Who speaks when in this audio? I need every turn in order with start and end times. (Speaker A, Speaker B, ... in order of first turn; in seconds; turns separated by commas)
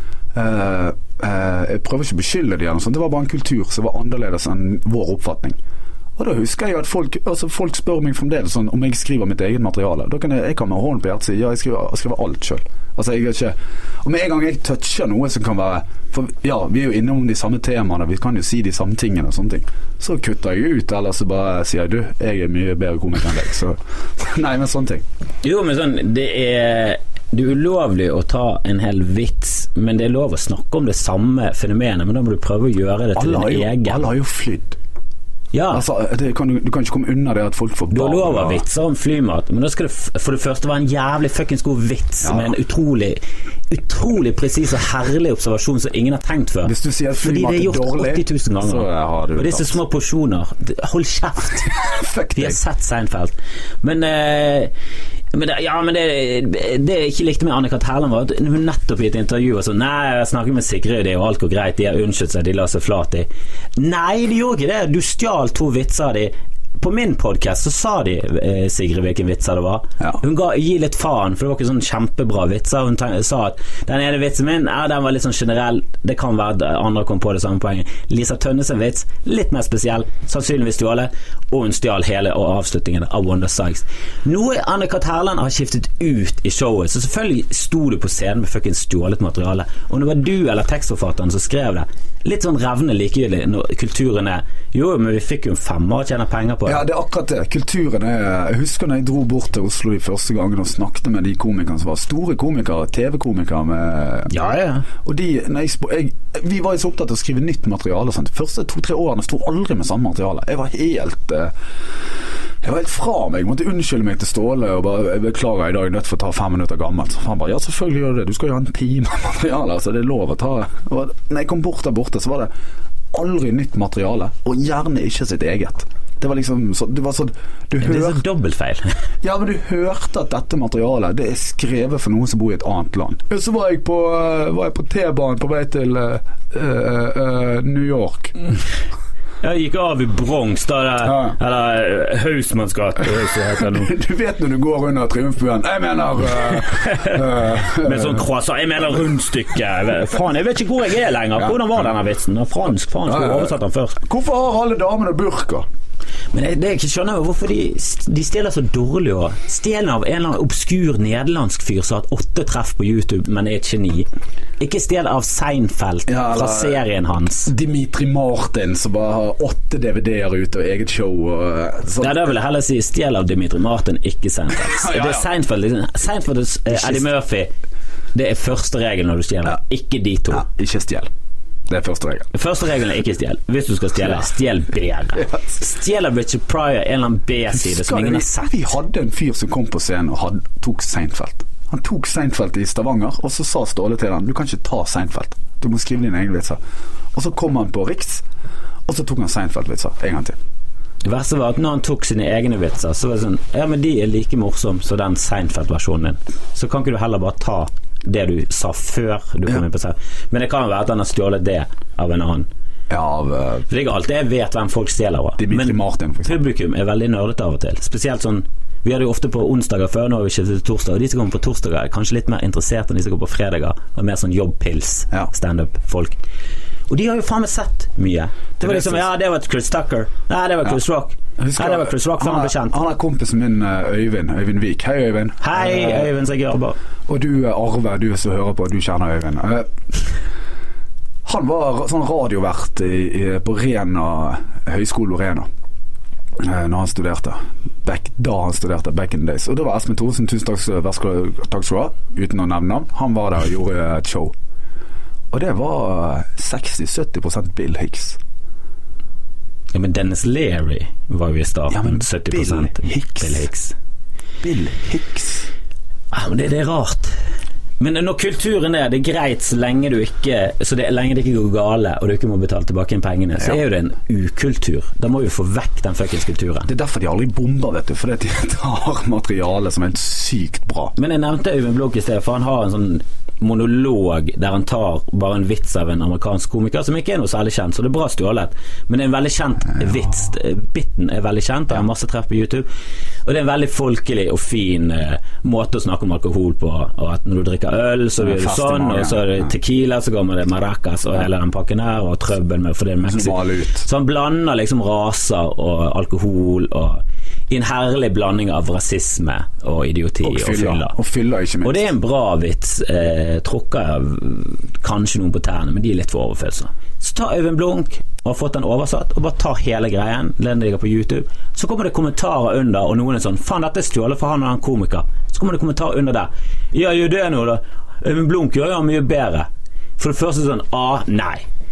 Speaker A: 0.3-5.6, Speaker A: 6.2-25.0, Speaker B: 25.4-34.0, Speaker A: 33.2-34.8, Speaker B: 35.5-35.8, Speaker A: 35.7-38.6, Speaker B: 37.9-54.7, Speaker A: 42.2-42.5, Speaker A: 46.6-49.8, Speaker A: 51.7-52.6, Speaker B: 55.3-96.8, Speaker A: 96.7-104.3, Speaker B: 104.3-104.9, Speaker A: 105.0-111.5, Speaker A: 112.6-122.5, Speaker A: 123.1-128.2, Speaker B: 127.8-128.9, Speaker A: 129.2-138.3, Speaker B: 139.4-143.9, Speaker A: 141.1-141.3, Speaker A: 143.7-148.2, Speaker B: 146.5-154.0, Speaker A: 153.1-155.7, Speaker B: 156.3-164.1, Speaker B: 164.6-167.5, Speaker A: 166.1-166.8, Speaker A: 167.5-172.3, Speaker B: 172.0-177.5, Speaker A: 174.6-175.3, Speaker A: 176.7-177.1, Speaker B: 178.1-180.5, Speaker A: 180.3-181.1, Speaker A: 181.7-182.3, Speaker B: 182.3-188.5, Speaker A: 187.5-196.6, Speaker A: 197.1-198.2, Speaker A: 198.9-200.4, Speaker B: 201.0-212.5, Speaker A: 212.9-213.7, Speaker B: 213.7-226.2, Speaker A: 215.4-216.4, Speaker B: 226.9-232.8, Speaker A: 228.6-229.1, Speaker A: 231.4-236.1, Speaker B: 235.4-236.8, Speaker A: 237.1-240.1, Speaker A: 241.2-245.5, Speaker A: 246.4-254.3, Speaker A: 255.3-258.2, Speaker B: 259.7-263.8, Speaker A: 261.7-263.4, Speaker A: 264.4-265.5, Speaker B: 266.1-267.2, Speaker B: 267.8-276.7, Speaker A: 276.7-280.9, Speaker B: 281.0-292.7, Speaker B: 293.2-310.9, Speaker A: 298.2-299.5, Speaker A: 303.1-303.9, Speaker A: 310.2-311.9, Speaker B: 311.6-331.5